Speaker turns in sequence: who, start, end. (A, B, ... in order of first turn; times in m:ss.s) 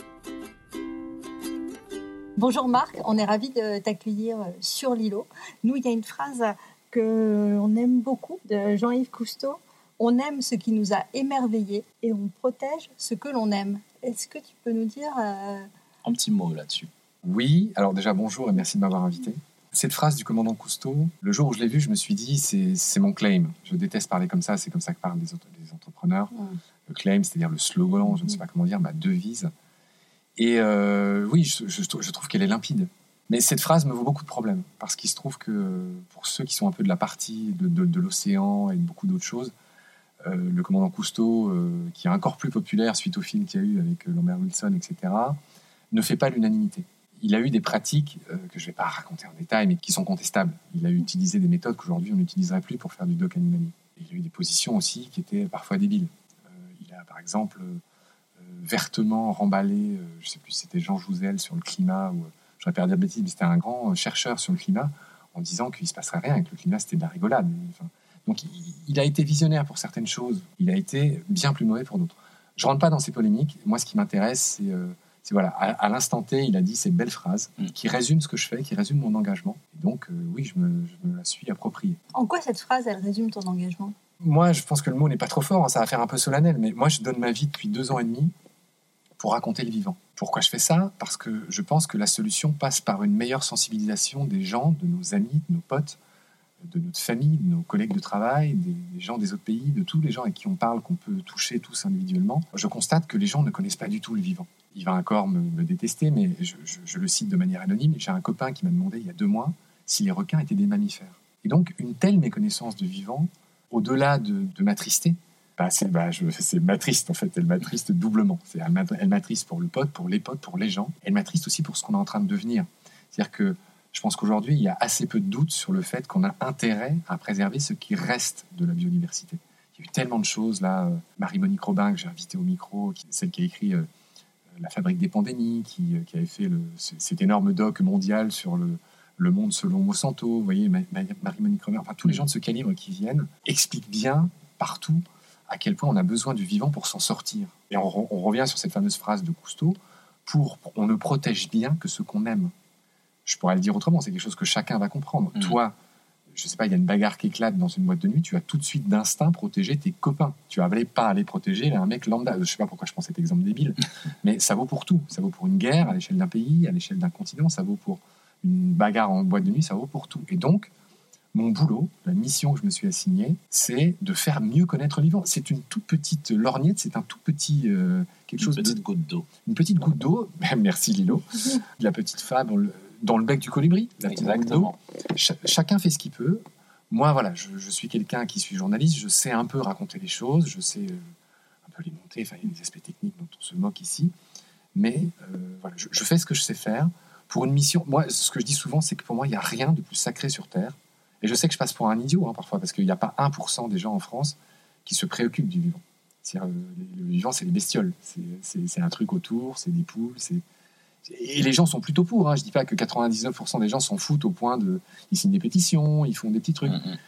0:02.4-0:15.7 A
0:16.0-0:16.9 B
0:17.2-0:26.3 C
0:26.9-0:29.5 C
0:30.4-0:39.5 C
0:40.2-0:45.4 C
0:45.9-0:57.8 C
0:58.4-1:22.0 C
1:22.1-1:23.9 A
1:24.2-1:28.3 C
1:29.2-1:36.0 C
1:36.6-2:13.8 C
2:14.6-2:32.5 C
2:33.2-2:35.7 C
2:36.3-2:50.7 C
2:51.3-2:58.8 C
2:58.4-2:59.3 B
2:59.4-3:11.0 C
3:04.1-3:04.7 B
3:11.6-3:14.1 C
3:14.7-3:30.4 C
3:31.0-3:36.8 C